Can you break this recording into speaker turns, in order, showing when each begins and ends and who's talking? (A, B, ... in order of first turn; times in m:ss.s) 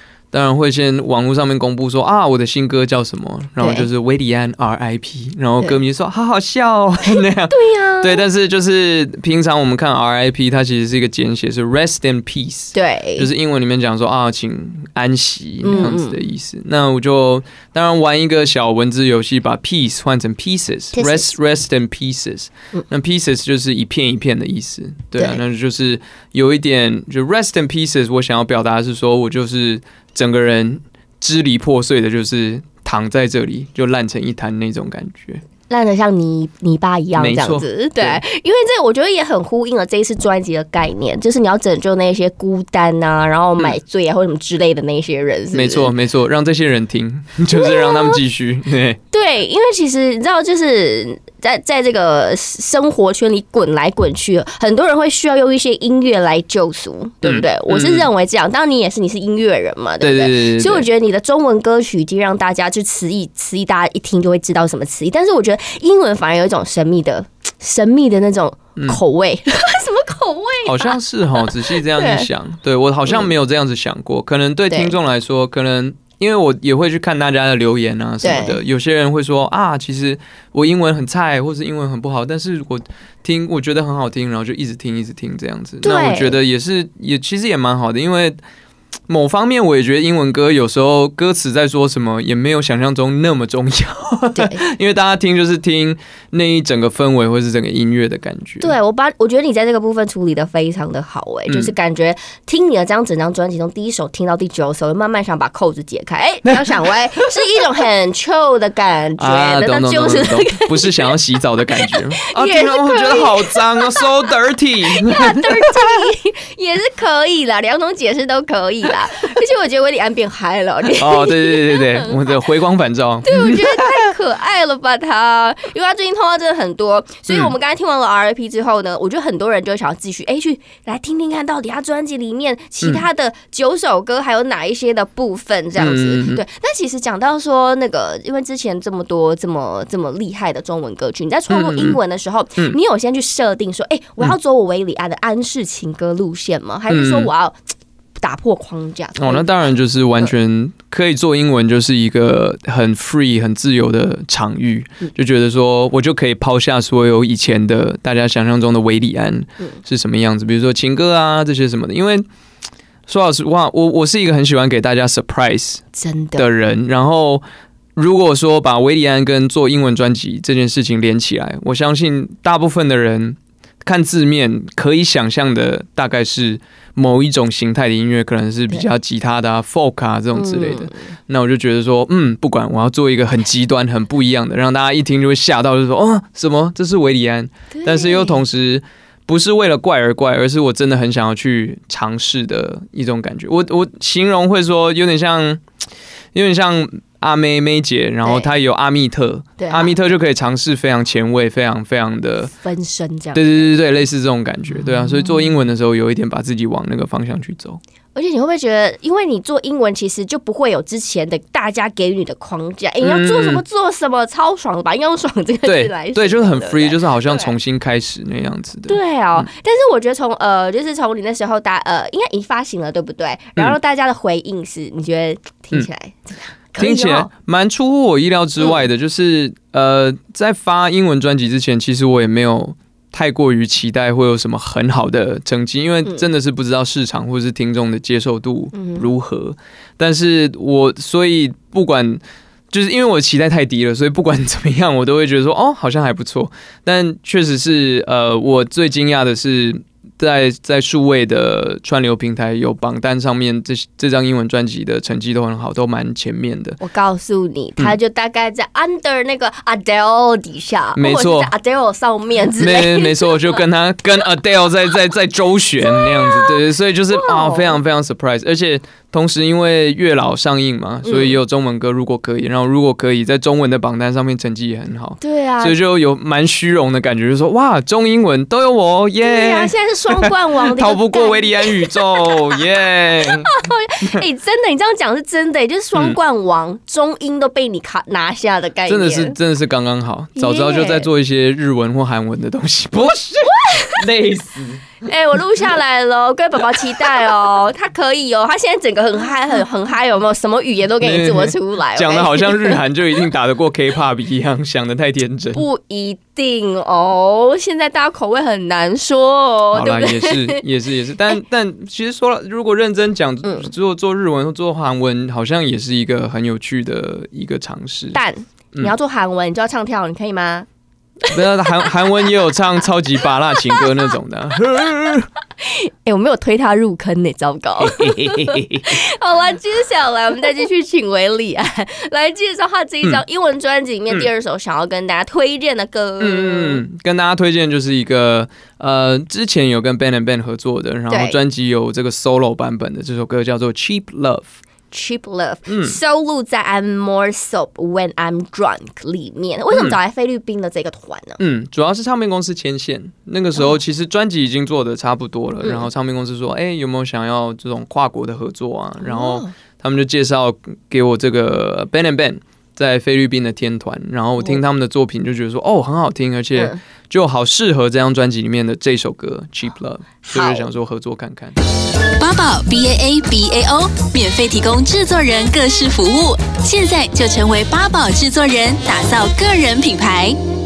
0:00.3-0:35.4 A
0:03.6-0:03.9 B
0:07.1-0:08.2 B
0:12.7-0:13.3 B
0:15.6-0:16.2 B
0:20.9-0:21.4 B
0:25.2-0:25.4 B
0:35.7-0:45.9 B
0:37.2-0:38.2 A
0:45.5-0:49.0 A
0:47.5-0:48.2 B
0:49.1-1:12.3 B
0:57.2-0:58.1 A
1:00.0-1:00.9 A
1:10.6-1:28.4 A
1:14.7-1:14.9 B
1:18.2-1:18.6 B
1:25.8-1:26.3 B
1:29.1-1:38.8 A
1:34.3-1:34.6 B
1:38.6-1:51.1 B
1:41.5-1:41.7 A
1:46.5-1:46.9 A
1:49.2-1:55.9 A
1:51.8-1:54.1 B
1:54.9-2:02.4 B
2:01.0-2:03.7 A
2:03.2-2:27.6 B
2:07.3-2:07.5 A
2:15.8-2:16.4 A
2:21.5-2:22.0 A
2:26.9-2:27.3 A
2:28.2-2:29.6 B
2:29.2-2:42.2 A
2:43.1-2:45.8 A
2:45.9-2:46.5 B
2:46.4-2:47.4 A
2:48.0-3:15.6 A
3:00.3-3:01.1 B
3:07.7-3:08.4 B
3:16.3-3:22.5 A
3:18.2-3:18.5 B
3:19.6-3:20.0 B
3:22.6-3:23.7 B
3:23.3-3:27.8 A
3:28.1-3:37.5 B
3:33.0-3:33.6 A
3:35.6-3:39.5 A
3:38.9-3:47.3 B
3:46.8-4:16.8 A
3:48.6-3:48.8 B
3:58.7-3:59.1 B
4:16.8-4:23.6 B
4:20.9-4:21.5 A
4:22.6-4:44.2 A
4:25.9-4:26.6 B
4:27.1-4:27.8 B
4:31.0-4:31.4 B
4:35.2-4:35.8 B
4:39.2-4:42.6 B
4:43.2-4:49.4 B
4:48.9-4:55.1 A
4:50.4-4:51.1 B
4:53.5-4:54.0 B
4:55.0-5:02.8 B
5:01.0-5:05.6 A
5:05.5-5:10.6 B
5:09.7-5:18.2 A
5:13.4-5:13.7 B
5:18.1-5:20.6 B
5:21.3-5:25.3 A
5:21.3-5:21.9 B
5:23.5-5:23.9 B
5:25.6-5:36.8 B
5:28.0-5:28.9 A
5:36.2-5:44.6 A
5:41.1-5:41.4 B
5:44.9-5:51.4 B
5:45.7-5:46.0 A
5:49.7-5:50.0 A
5:51.4-6:11.6 A
5:55.6-5:55.9 B
5:59.0-5:59.5 B
6:10.2-6:10.7 B
6:12.2-6:20.4 C